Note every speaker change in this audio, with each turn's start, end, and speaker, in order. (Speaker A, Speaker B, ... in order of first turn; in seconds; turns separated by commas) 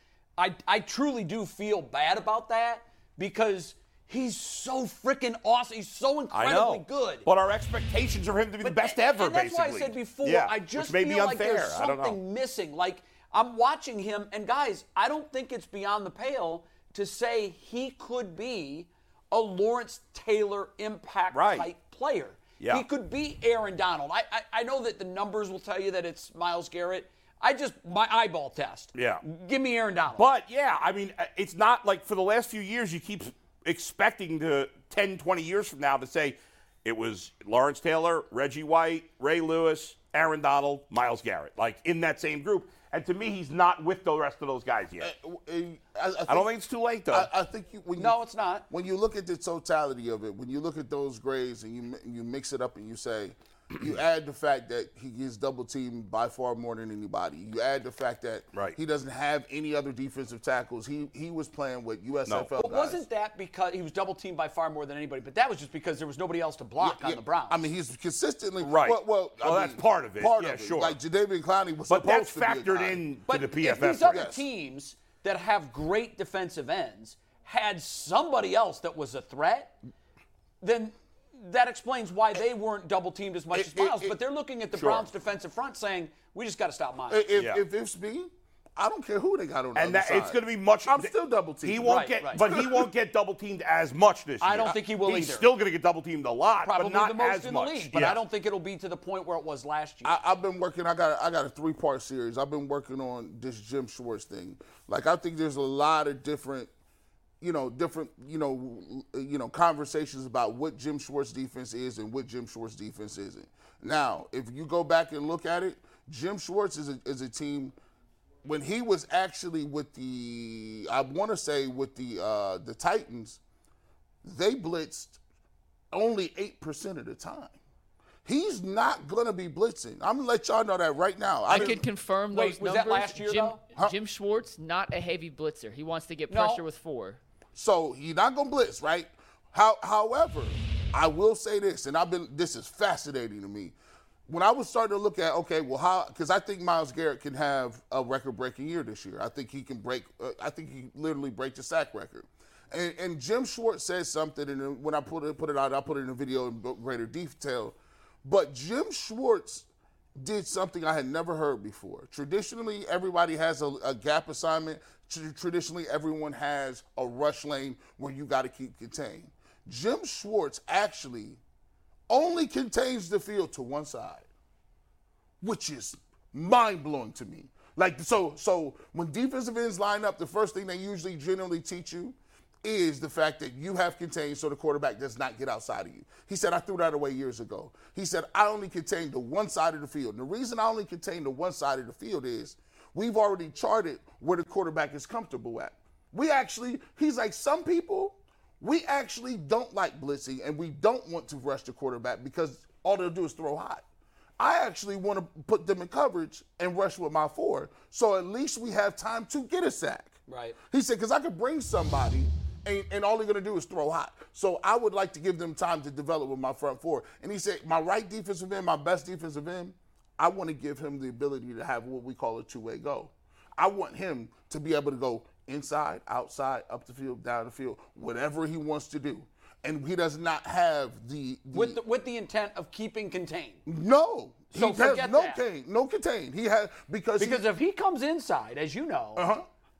Speaker A: 0.4-7.2, Speaker B: 6.3-12.2, Speaker A: 8.6-30.3, Speaker B: 21.3-21.7, Speaker B: 22.6-22.8, Speaker B: 28.9-29.2, Speaker B: 30.2-45.1, Speaker C: 45.0-46.5, Speaker B: 46.3-47.3, Speaker C: 47.1-48.2, Speaker A: 48.0-48.6, Speaker C: 48.7-63.0, Speaker A: 62.5-67.6, Speaker C: 66.8-73.1, Speaker B: 68.6-71.0, Speaker B: 71.9-74.3, Speaker A: 73.3-79.7, Speaker C: 74.1-74.4, Speaker A: 80.6-87.3, Speaker C: 83.5-84.1, Speaker B: 84.8-85.0, Speaker C: 87.1-92.9, Speaker B: 87.3-87.6, Speaker B: 89.7-98.2, Speaker A: 91.8-92.4, Speaker A: 94.4-95.5, Speaker A: 96.6-100.2, Speaker C: 100.0-106.7, Speaker C: 107.4-117.8, Speaker C: 118.4-123.4, Speaker C: 124.2-125.2, Speaker C: 125.9-127.5, Speaker C: 128.2-131.8, Speaker D: 131.5-137.2, Speaker A: 131.5-131.8, Speaker A: 132.3-133.6, Speaker A: 136.3-136.6, Speaker C: 137.5-143.7, Speaker C: 144.3-171.4, Speaker C: 172.1-174.3, Speaker C: 175.4-203.8, Speaker C: 204.4-210.2, Speaker A: 210.3-210.6, Speaker C: 210.7-231.8, Speaker A: 231.5-233.6, Speaker C: 233.7-237.4, Speaker A: 234.5-235.4, Speaker A: 237.2-239.2, Speaker C: 239.2-239.4